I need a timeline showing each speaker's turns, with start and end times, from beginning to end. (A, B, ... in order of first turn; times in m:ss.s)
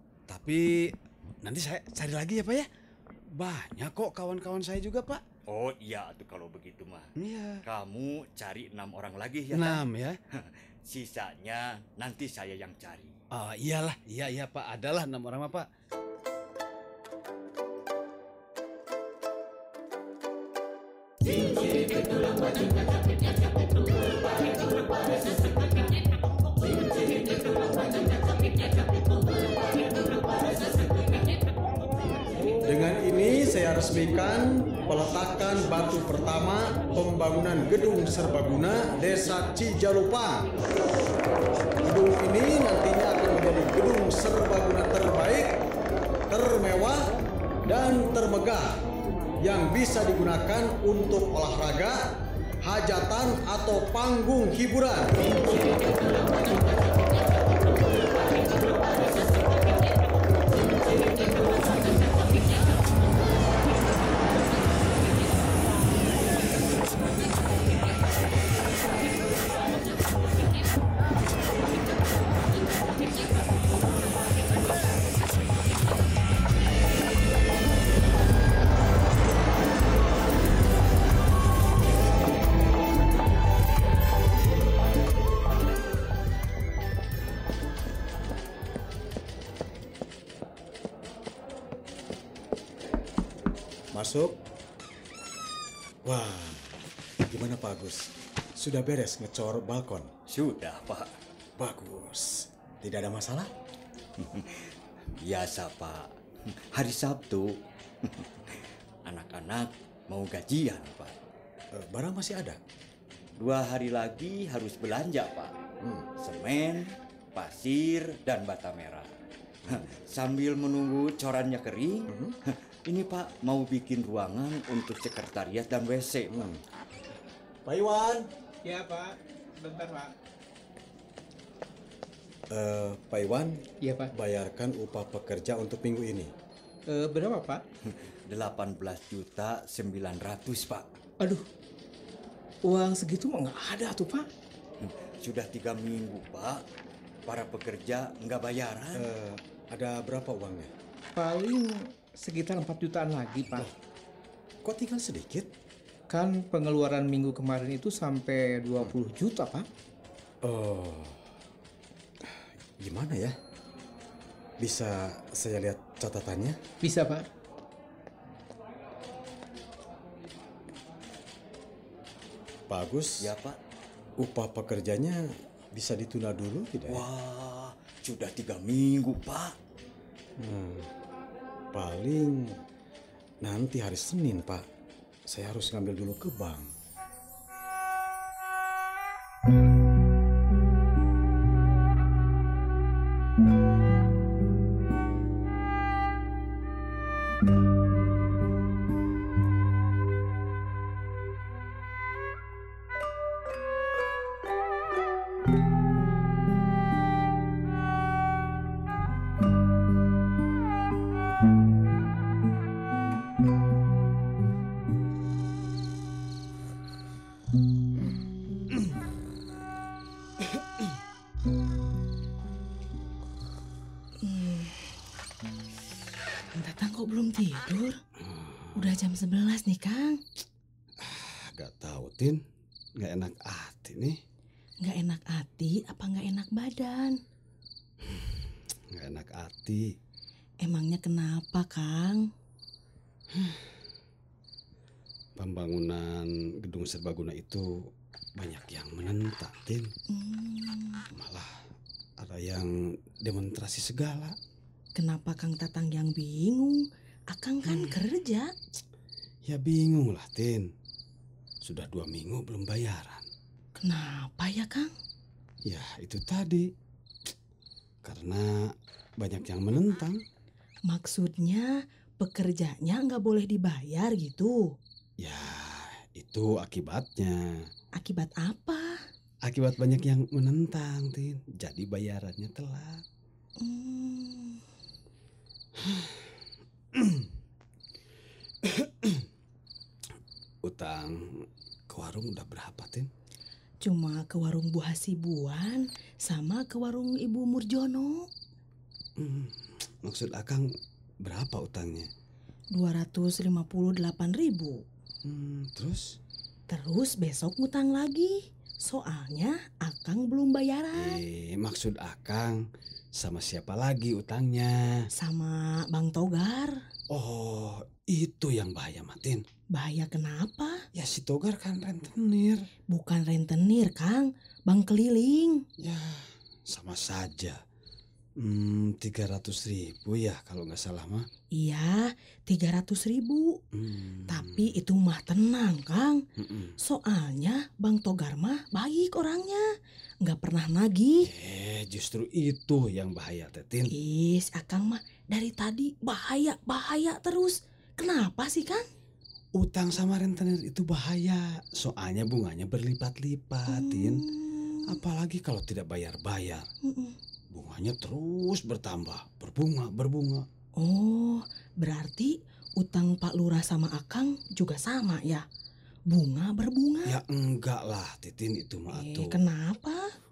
0:00.3-0:02.7 A
0:03.3-0:05.2 A
0:05.5-0:07.1 B
0:07.2-0:07.6 A
0:07.7-0:09.8 B
0:09.5-0:10.2 A
0:10.4-0:13.2 B
0:13.3-0:15.7 A
0:32.6-0:40.5 C
0:41.8-0:45.6 C
0:46.3-0:47.2 C
0:47.7-0:48.8 C
0:49.4-0:52.1 C
0:52.6-0:55.2 C
1:33.9-1:34.4 C
1:36.0-1:40.1 C
1:40.3-1:41.1 B
1:41.6-1:43.5 C
1:44.2-1:46.1 B
1:46.7-1:51.1 B
1:51.7-1:52.6 C
1:53.4-1:55.5 B
1:55.8-1:56.1 C
1:56.2-1:59.1 B
1:59.6-2:06.5 B
2:02.1-2:02.4 C
2:06.3-2:06.6 C
2:07.6-2:08.3 C
2:08.6-2:10.1 D
2:12.5-2:16.3 C
2:13.8-2:14.1 D
2:16.9-2:17.6 D
2:17.9-2:20.9 B
2:21.2-2:21.4 D
2:22.6-2:24.3 D
2:24.8-2:26.6 B
2:27.3-2:29.1 B
2:29.0-2:30.7 C
2:31.2-2:33.7 D
2:34.6-2:35.5 C
2:36.1-2:39.7 D
2:40.4-2:41.2 C
2:42.2-2:43.4 C
2:44.6-2:46.6 C
2:46.8-2:47.3 D
2:52.7-2:53.3 C
2:53.2-2:53.6 B
2:54.2-2:57.1 C
2:56.9-2:59.6 B
3:00.4-3:00.9 C
3:01.7-3:02.6 C
3:03.4-3:04.6 C
3:05.3-3:06.7 C
3:44.2-3:44.8 E
3:46.5-3:48.0 E
3:48.2-3:49.0 A
3:48.8-3:50.2 E
3:51.0-3:52.4 A
3:53.0-3:54.2 A
3:54.8-3:57.2 E
3:58.0-3:58.4 A
3:58.9-3:59.9 A
4:00.6-4:02.3 E
4:03.3-4:03.6 A
4:05.4-4:09.9 A
4:10.1-4:11.0 E
4:11.1-4:11.6 A
4:12.2-4:14.4 A
4:15.0-4:18.5 E
4:17.6-4:17.9 A
4:19.4-4:20.7 A
4:21.6-4:23.3 A
4:23.8-4:24.9 E
4:25.7-4:26.7 A
4:28.0-4:30.2 A
4:30.9-4:34.7 E
4:35.2-4:37.6 A
4:38.0-4:39.0 E
4:39.5-4:43.0 A
4:43.6-4:44.6 E
4:45.8-4:46.3 A
4:46.9-4:47.3 A
4:48.6-4:49.3 A
4:50.6-4:53.1 A
4:53.8-4:58.3 E
4:59.2-5:00.7 A
5:01.2-5:02.1 A
5:02.7-5:04.8 E
5:05.2-5:06.2 A
5:06.7-5:11.2 E
5:10.9-5:12.6 A
5:13.2-5:15.1 A
5:15.2-5:16.8 E
5:17.1-5:19.4 A
5:19.7-5:20.8 E
5:20.9-5:22.7 A
5:22.9-5:25.6 E
5:25.8-5:27.6 A
5:28.4-5:31.3 A
5:31.5-5:33.6 E
5:33.7-5:34.8 A
5:34.3-5:36.2 E
5:36.4-5:36.8 A
5:36.8-5:39.6 E
5:40.2-5:41.3 E
5:41.2-5:43.9 A
5:43.9-5:48.8 E
5:49.6-5:54.2 A
5:53.7-5:55.0 E
5:54.9-5:56.7 A
5:56.8-5:57.2 E
5:57.5-6:00.5 A
6:00.8-6:05.4 E
6:06.1-6:07.2 E
6:07.0-6:09.4 A
6:08.9-6:10.0 E